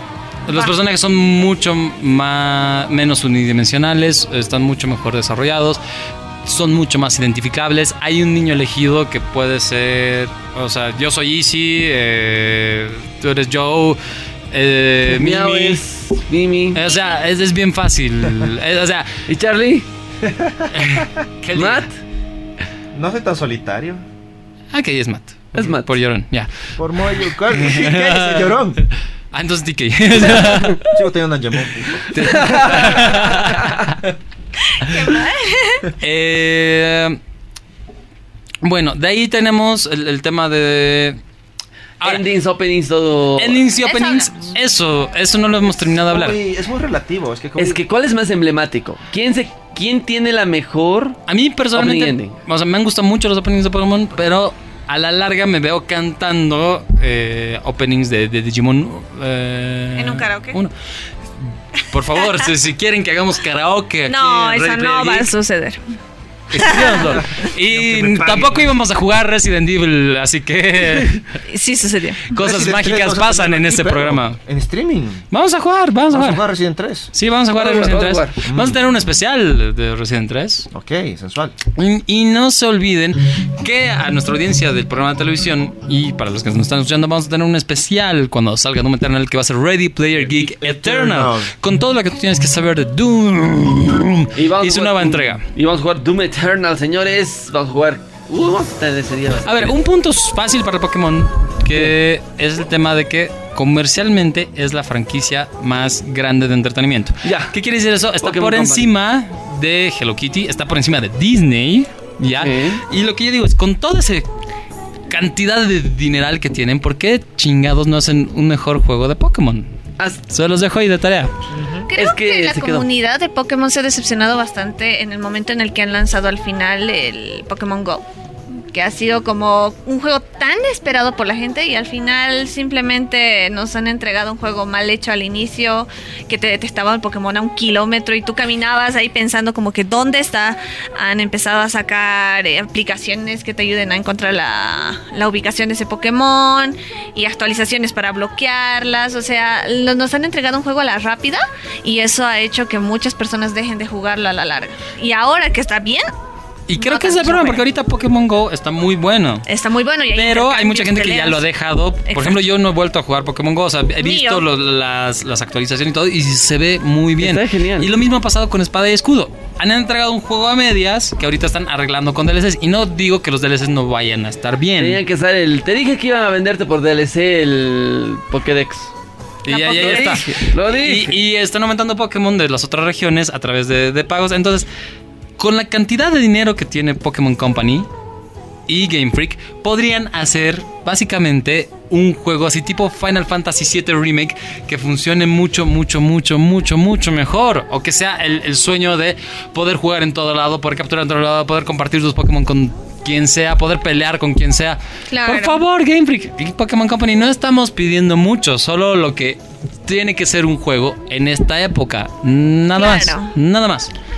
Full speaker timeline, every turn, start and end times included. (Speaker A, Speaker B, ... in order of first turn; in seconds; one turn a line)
Speaker A: 0.5-5.8
Speaker A: 6.4-14.0
Speaker A: 14.5-15.8
Speaker B: 15.1-16.8
Speaker A: 16.7-19.2
Speaker B: 19.3-19.9
Speaker C: 20.2-21.1
Speaker A: 20.7-21.9
Speaker B: 21.5-21.9
Speaker C: 22.9-24.0
Speaker A: 24.7-26.5
Speaker B: 25.5-25.9
Speaker C: 26.8-28.8
Speaker A: 27.5-28.6
Speaker A: 29.3-30.8
Speaker C: 30.8-33.4
Speaker B: 32.1-33.9
Speaker A: 32.1-33.8
Speaker D: 34.7-35.9
Speaker A: 36.0-37.2
Speaker A: 38.6-41.2
Speaker B: 42.0-43.6
Speaker A: 43.4-46.4
Speaker D: 43.8-44.5
Speaker C: 46.0-47.8
Speaker B: 47.6-51.2
Speaker A: 51.3-60.7
Speaker B: 51.7-52.4
Speaker D: 60.0-60.6
Speaker A: 61.8-65.3
Speaker D: 64.1-65.8
Speaker A: 66.5-71.2
Speaker D: 66.5-67.2
Speaker B: 66.7-67.0
Speaker C: 67.1-68.7
Speaker D: 71.5-72.4
Speaker A: 72.3-74.4
Speaker C: 72.3-75.2
Speaker A: 75.3-76.4
Speaker C: 76.1-77.1
Speaker A: 77.1-80.7
Speaker B: 77.5-78.4
Speaker C: 78.4-78.8
Speaker C: 80.7-81.6
Speaker A: 81.7-95.4
Speaker C: 90.2-91.5
Speaker B: 94.3-99.8
Speaker A: 99.4-114.3
Speaker B: 107.2-107.5
Speaker B: 108.2-108.9
Speaker B: 112.4-112.8
Speaker A: 115.1-119.7
Speaker A: 120.2-121.3
Speaker C: 121.5-121.9
Speaker D: 121.9-156.1
Speaker B: 122.0-122.8
Speaker A: 156.7-159.5
Speaker D: 156.8-157.6
Speaker D: 159.5-161.4
Speaker A: 160.1-175.0
Speaker D: 162.1-162.4
Speaker D: 164.0-164.4
Speaker B: 167.2-167.9
Speaker B: 174.8-178.9
Speaker A: 179.4-184.7
Speaker D: 179.5-180.4
Speaker B: 179.8-181.2
Speaker A: 185.4-187.9
Speaker A: 188.7-213.9
Speaker D: 205.1-205.6
Speaker D: 212.8-213.3